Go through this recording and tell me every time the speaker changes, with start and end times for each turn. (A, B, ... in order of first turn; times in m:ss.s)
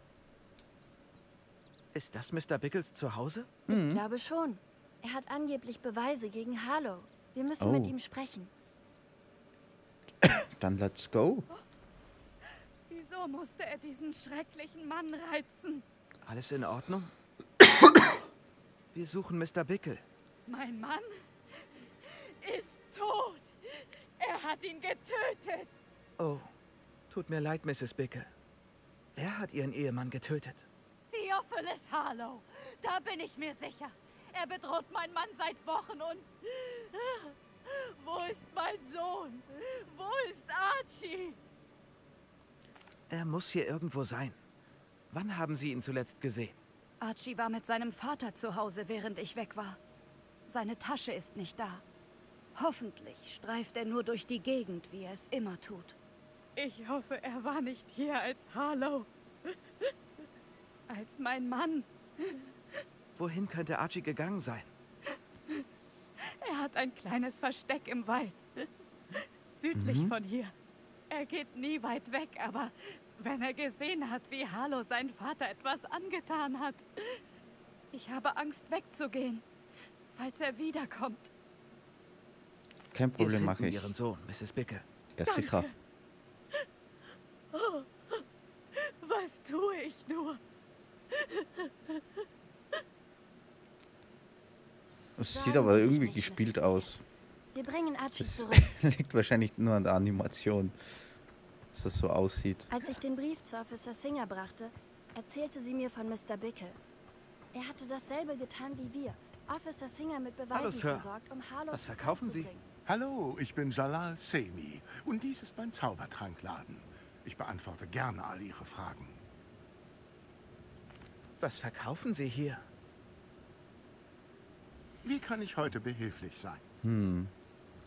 0:01.9-0:03.5 A
0:03.7-0:08.5 B
0:03.7-0:04.0 C
0:07.6-0:08.0 C
0:10.2-0:11.5 C
0:12.9-0:15.8 D
0:16.2-0:17.1 A
0:18.9-0:20.0 A
0:20.5-0:25.7 D
0:26.2-0:26.5 A
0:27.1-0:28.3 A
0:29.2-0:30.7 A
0:31.1-0:41.4 D
0:43.1-0:44.4 A
0:45.1-0:46.6 A
0:47.0-0:49.8 D
0:50.5-0:51.8 D
0:52.6-0:56.0 D
0:56.6-0:59.9 D
1:00.9-1:02.5 D
1:03.2-1:04.7 A
1:05.1-1:05.6 D
1:06.2-1:10.5 D
1:09.7-1:10.2 C
1:11.1-1:17.2 D
1:17.9-1:19.4 D
1:20.1-1:21.3 D
1:22.9-1:23.9 C
1:23.2-1:24.8 A
1:25.2-1:25.7 C
1:25.3-1:25.7 D
1:27.5-1:30.4 D
1:31.1-1:32.0 D
1:35.2-1:37.0 C
1:35.3-1:36.9 B
1:37.5-1:38.7 B
1:38.2-1:40.8 C
1:41.7-1:42.7 C
1:42.7-1:46.8 B
1:47.5-1:52.6 B
1:50.5-1:51.1 A
1:51.7-1:52.5 A
1:52.9-1:59.2 E
2:01.4-2:02.6 A
2:05.0-2:06.6 E
2:06.8-2:07.3 C